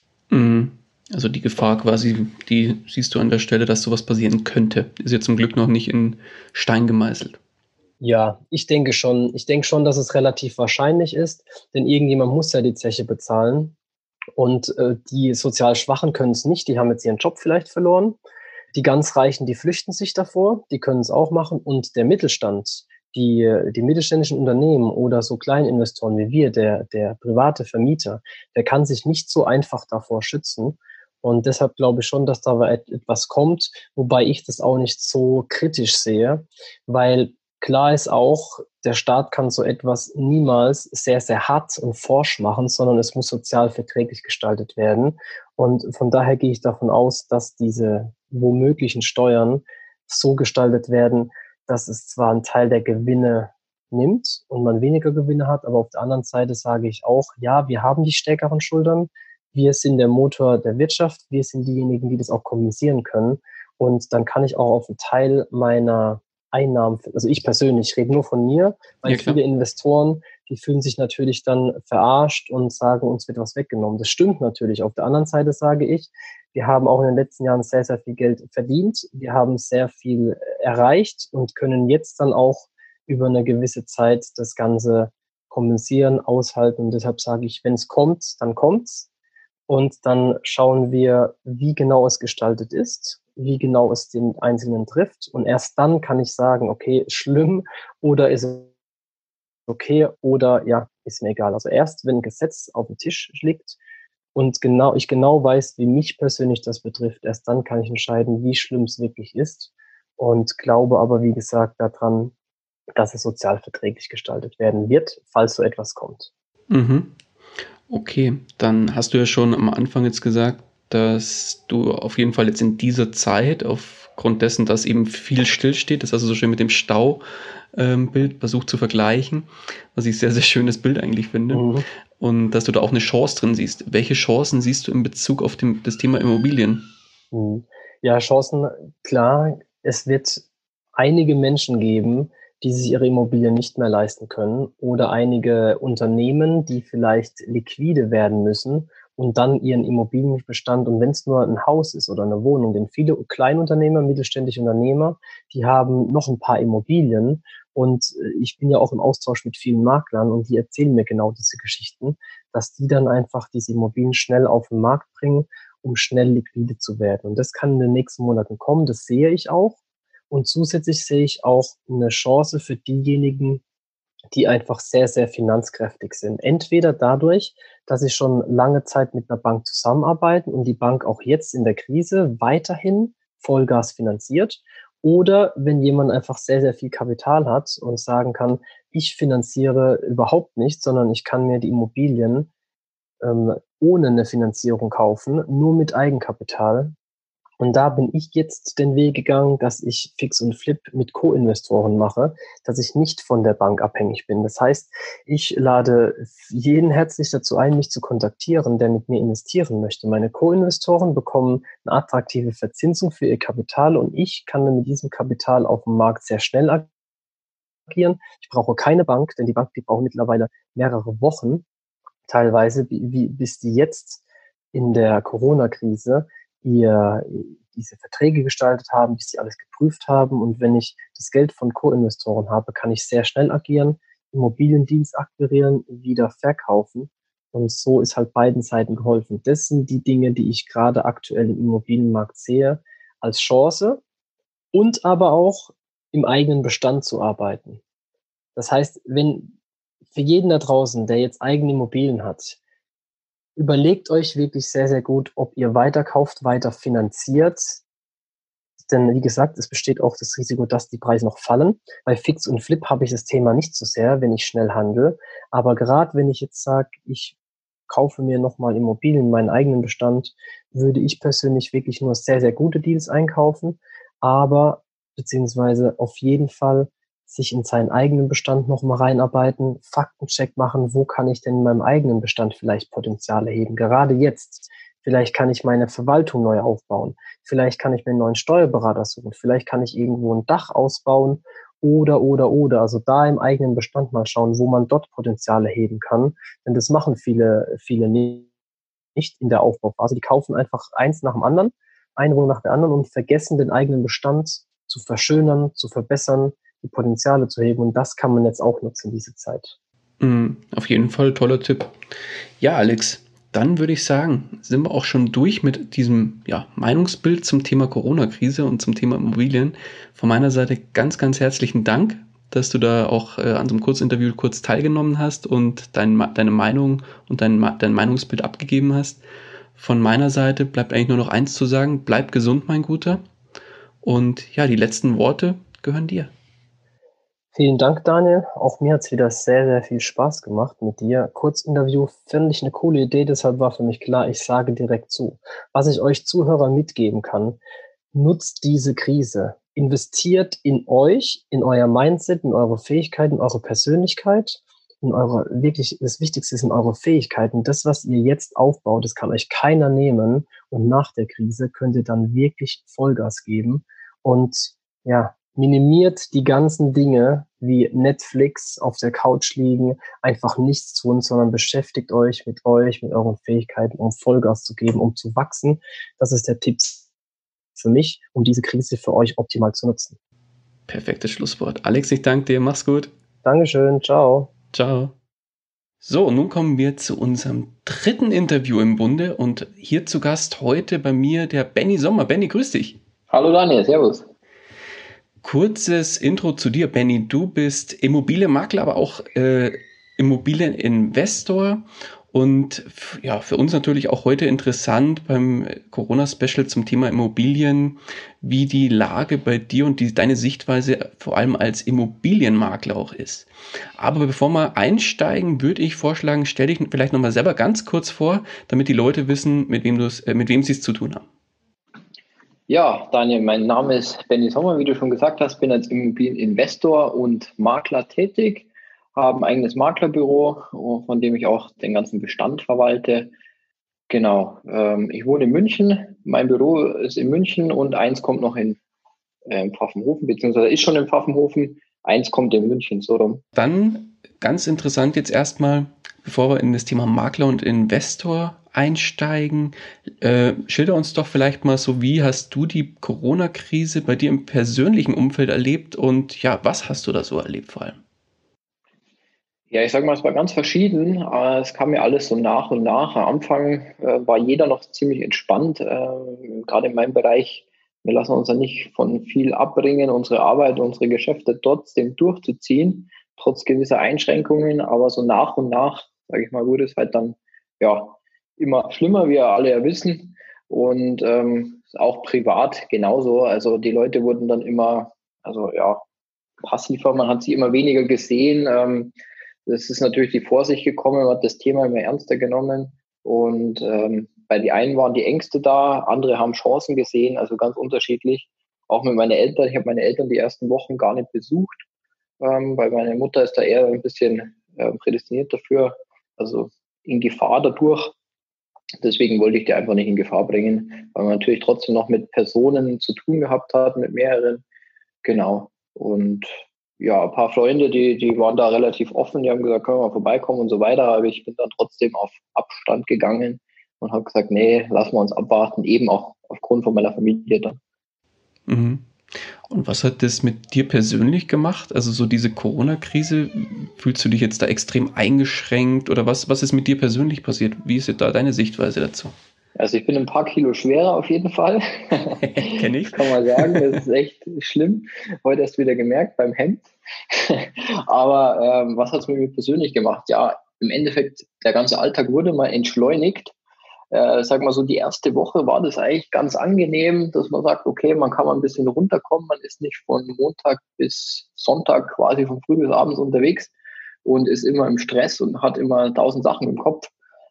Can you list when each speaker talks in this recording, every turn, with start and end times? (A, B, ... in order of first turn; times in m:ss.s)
0:00.3-0:07.4 A
0:08.0-0:13.8 B
0:14.4-0:18.2 B
0:18.7-1:29.1 B
1:09.1-1:09.4 A
1:29.7-1:38.7 B
1:39.7-1:43.8 B
1:44.4-1:52.3 B
1:53.0-1:56.3 B
1:56.7-1:57.2 A
1:57.9-2:07.2 A
2:07.7-2:11.7 A
2:11.5-2:11.8 B
2:12.2-2:16.9 A
2:17.3-2:20.4 B
2:21.0-2:49.8 B
2:50.3-2:53.6 B
2:54.3-3:12.5 B
3:13.2-3:17.0 B
3:17.6-3:36.9 B
3:37.9-3:41.6 B
3:42.3-3:44.2 B
3:44.7-4:04.0 B
4:04.7-4:07.8 B
4:08.6-4:09.6 B
4:10.1-4:12.6 B
4:13.6-4:17.8 B
4:18.9-4:27.4 B
4:27.9-4:58.5 B
4:59.2-5:09.8 B
5:10.2-5:11.9 A
5:12.6-5:29.2 A
5:29.8-5:33.2 A
5:34.0-5:36.3 A
5:37.5-5:47.6 B
5:48.1-6:17.1 B
6:17.8-6:20.2 B
6:20.9-6:23.1 A
6:23.4-6:24.5 B
6:24.7-6:25.1 A
6:26.0-6:33.0 A
6:33.3-6:34.3 C
6:35.4-7:01.2 A
7:02.7-7:13.3 C
7:14.1-7:18.8 C
7:19.5-7:23.4 C
7:23.6-7:38.0 A
7:39.7-8:06.0 C
8:06.6-8:09.1 C
8:09.7-8:21.8 C
8:22.4-8:28.2 C
8:29.0-8:34.6 C
8:35.2-8:47.8 C
8:48.7-8:49.1 A
8:49.7-8:59.3 A
8:59.8-9:13.5 C
9:02.4-9:04.0 A
9:14.1-9:23.7 C
9:24.2-9:27.1 C